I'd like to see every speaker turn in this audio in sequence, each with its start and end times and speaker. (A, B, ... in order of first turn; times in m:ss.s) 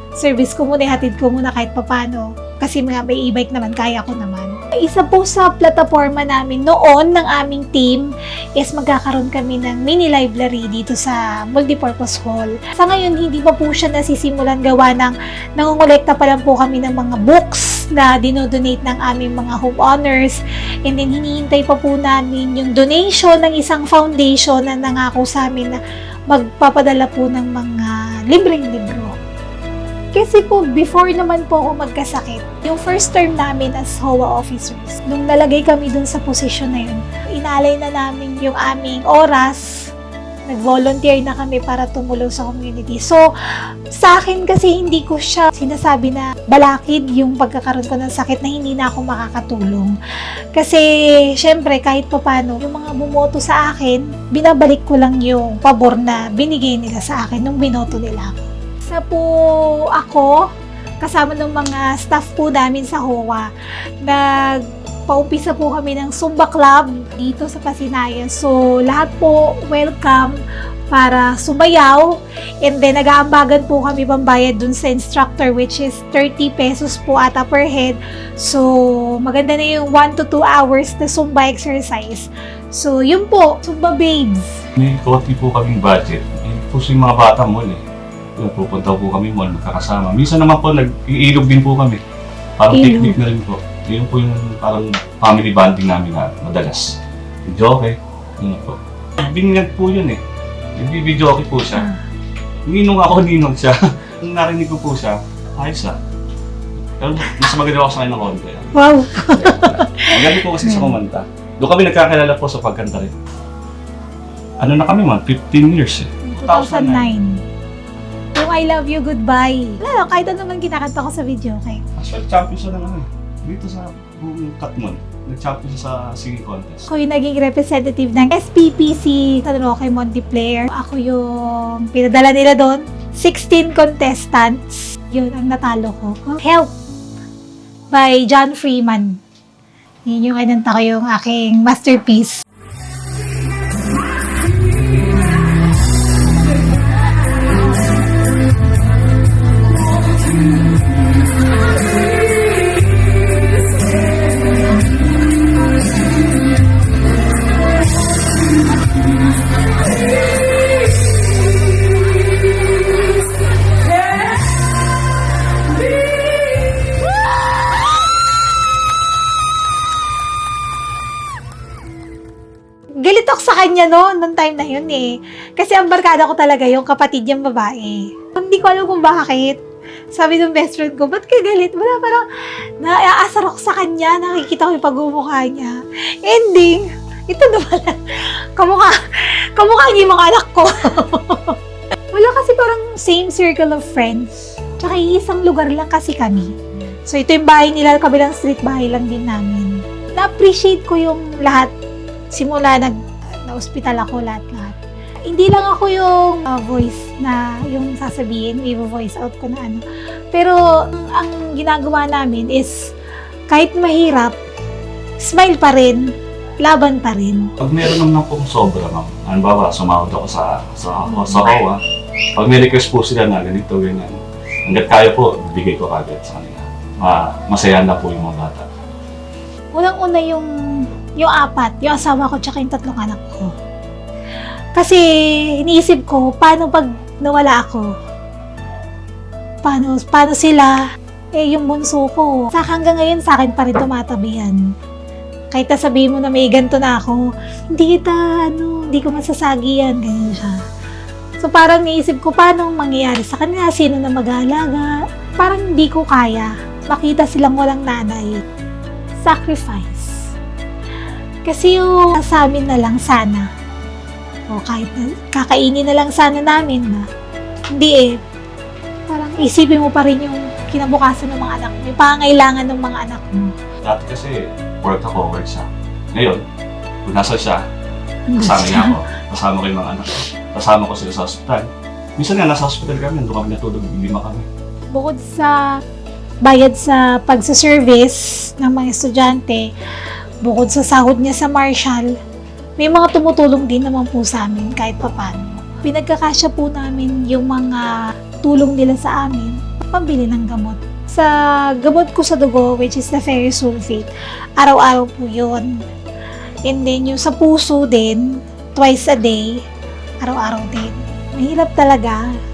0:00.2-0:29.2 A
0:30.1-0:39.9 A
0:40.5-0:50.0 A
0:50.6-1:00.5 A
1:01.0-1:03.5 A
1:04.0-1:10.4 A
1:10.9-1:24.6 A
1:24.8-1:27.8 B
1:28.4-1:32.0 B
1:32.6-1:40.2 B
1:32.7-1:33.2 A
1:40.8-1:41.9 B
1:42.7-1:46.0 B
1:47.0-1:53.1 B
1:48.8-1:50.9 A
1:54.6-1:57.2 B
1:56.2-1:57.4 A
1:58.3-2:01.9 A
2:02.0-2:06.9 B
2:06.9-2:16.7 A
2:17.9-2:19.2 A
2:20.1-2:22.4 A
2:53.0-2:59.6 A
3:00.1-3:02.2 A
3:02.8-3:11.6 A
3:12.1-3:21.7 A
3:22.3-3:24.8 A
3:25.3-3:32.9 A
3:33.5-3:34.4 A
3:35.2-3:37.5 A
3:37.6-3:41.8 B
3:42.4-3:48.7 B
3:49.7-3:53.5 A
3:54.8-3:57.9 A
3:59.6-4:00.8 A
4:01.4-4:04.6 A
4:05.5-4:10.6 A
4:11.4-4:18.4 A
4:19.2-4:20.2 A
4:21.4-4:23.5 A
4:24.5-4:27.1 A
4:27.7-4:28.2 A
4:29.1-4:33.6 A
4:33.8-4:36.4 B
4:37.0-4:37.6 B
4:38.3-4:39.0 A
4:38.4-4:44.5 B
4:44.9-4:45.6 A
4:46.4-4:49.7 A
4:50.4-4:52.2 A
4:52.8-5:05.8 A
5:06.7-5:09.6 A
5:10.2-5:12.3 A